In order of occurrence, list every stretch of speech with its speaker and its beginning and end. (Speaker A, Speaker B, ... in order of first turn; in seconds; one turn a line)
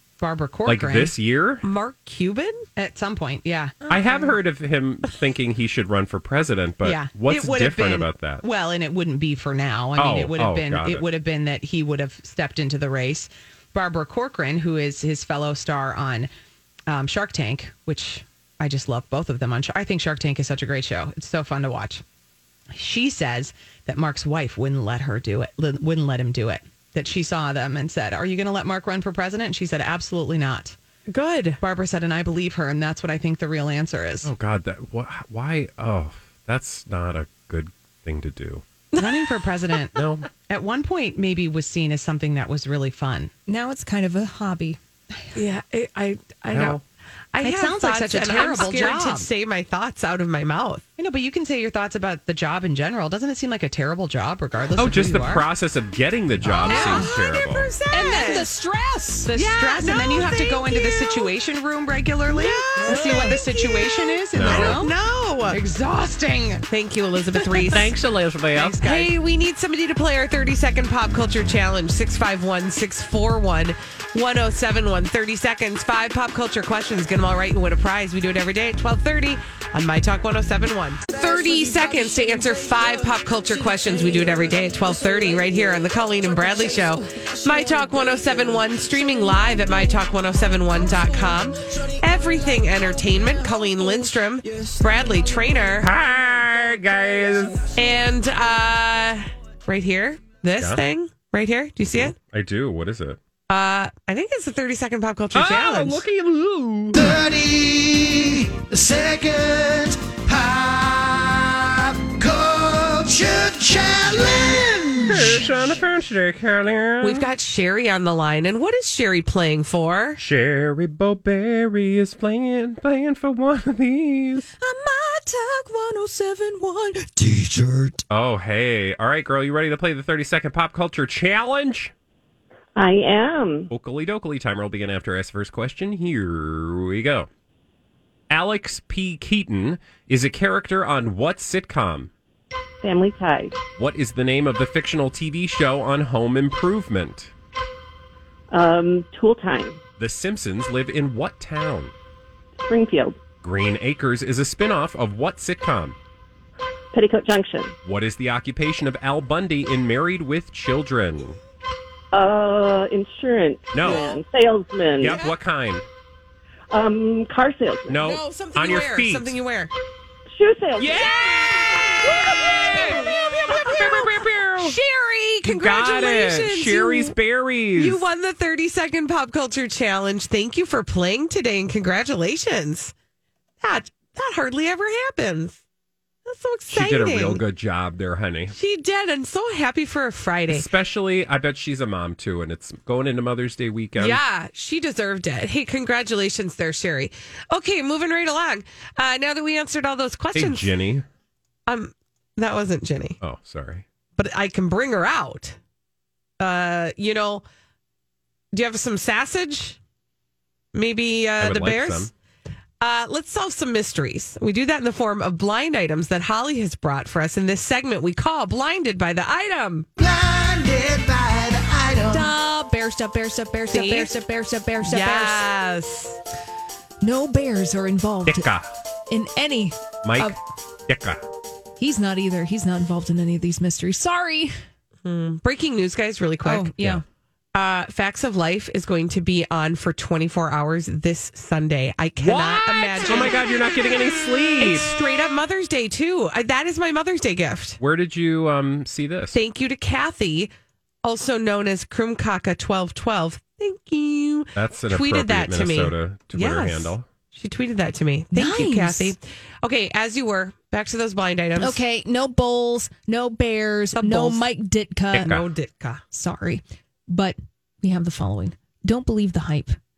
Speaker A: 0.2-1.1
Speaker B: 0.7-1.6
Speaker C: 1.6-2.6
Speaker A: 2.8-4.2
Speaker B: 3.9-8.4
Speaker A: 6.8-16.3
Speaker B: 10.0-11.1
Speaker A: 16.9-22.0
Speaker A: 22.7-30.8
Speaker C: 31.1-31.6
Speaker A: 31.6-34.3
Speaker B: 34.2-38.6
Speaker C: 38.9-39.4
Speaker A: 39.0-43.4
Speaker B: 40.0-40.3
Speaker D: 43.5-44.8
Speaker C: 45.4-50.9
Speaker B: 46.5-46.8
Speaker A: 47.4-49.3
Speaker A: 51.0-55.5
Speaker B: 54.8-57.7
Speaker A: 56.5-57.1
Speaker C: 56.6-58.5
Speaker D: 56.7-57.1
Speaker D: 57.9-59.3
Speaker A: 59.3-65.0
Speaker C: 59.3-61.3
Speaker D: 60.0-60.7
Speaker C: 62.3-65.6
Speaker B: 63.0-63.3
Speaker B: 64.3-64.9
Speaker A: 65.5-66.7
Speaker C: 66.7-67.9
Speaker A: 67.6-67.9
Speaker B: 67.7-68.8
Speaker A: 68.5-69.1
Speaker C: 68.8-95.9
Speaker B: 95.8-97.7
Speaker C: 97.8-102.2
Speaker B: 100.6-100.8
Speaker B: 101.9-103.2
Speaker C: 103.5-106.0
Speaker B: 105.3-107.1
Speaker E: 106.9-115.5
Speaker B: 115.0-117.3
Speaker C: 117.0-120.2
Speaker B: 120.2-124.5
Speaker D: 124.6-127.9
Speaker B: 128.1-131.9
Speaker F: 132.8-133.7
Speaker B: 133.7-137.3
Speaker B: 138.3-142.1
Speaker F: 142.8-143.6
Speaker B: 143.8-147.3
Speaker F: 148.5-149.8
Speaker B: 150.0-151.9
Speaker F: 152.6-153.2
Speaker B: 153.4-156.0
Speaker F: 156.9-157.8
Speaker B: 157.8-161.4
Speaker F: 162.1-165.2
Speaker B: 163.7-164.2
Speaker C: 163.8-164.2
Speaker B: 165.0-165.9
Speaker F: 166.7-168.0
Speaker B: 167.9-169.4
Speaker C: 168.0-169.7
Speaker F: 170.3-171.1
Speaker B: 170.8-174.8
Speaker C: 171.3-177.2
Speaker B: 175.4-178.0
Speaker C: 177.8-182.9
Speaker C: 183.6-185.6
Speaker C: 186.2-187.4
Speaker B: 186.7-188.5
Speaker C: 188.5-190.7
Speaker B: 190.5-194.2
Speaker C: 194.0-200.7
Speaker B: 200.3-201.1
Speaker C: 201.7-203.2
Speaker B: 203.2-203.8
Speaker C: 204.2-205.6
Speaker C: 206.4-207.4
Speaker C: 208.5-209.8
Speaker C: 210.7-212.1
Speaker B: 211.4-212.1
Speaker C: 212.8-219.9
Speaker E: 220.0-222.3
Speaker D: 222.1-225.5
Speaker C: 223.7-224.1
Speaker C: 224.8-226.2
Speaker D: 227.0-228.5
Speaker B: 228.3-228.7
Speaker D: 229.1-230.4
Speaker B: 230.0-230.3
Speaker B: 230.9-231.2
Speaker D: 231.8-234.5
Speaker C: 235.1-236.7
Speaker D: 236.4-237.0
Speaker C: 237.6-243.4
Speaker B: 242.2-244.9
Speaker C: 244.6-247.8
Speaker B: 247.8-249.4
Speaker C: 249.3-250.5
Speaker C: 251.0-261.8
Speaker B: 254.6-257.1
Speaker D: 258.3-259.1
Speaker D: 261.6-265.4
Speaker C: 264.0-264.4
Speaker B: 265.1-265.4
Speaker C: 265.2-266.0
Speaker D: 266.1-269.8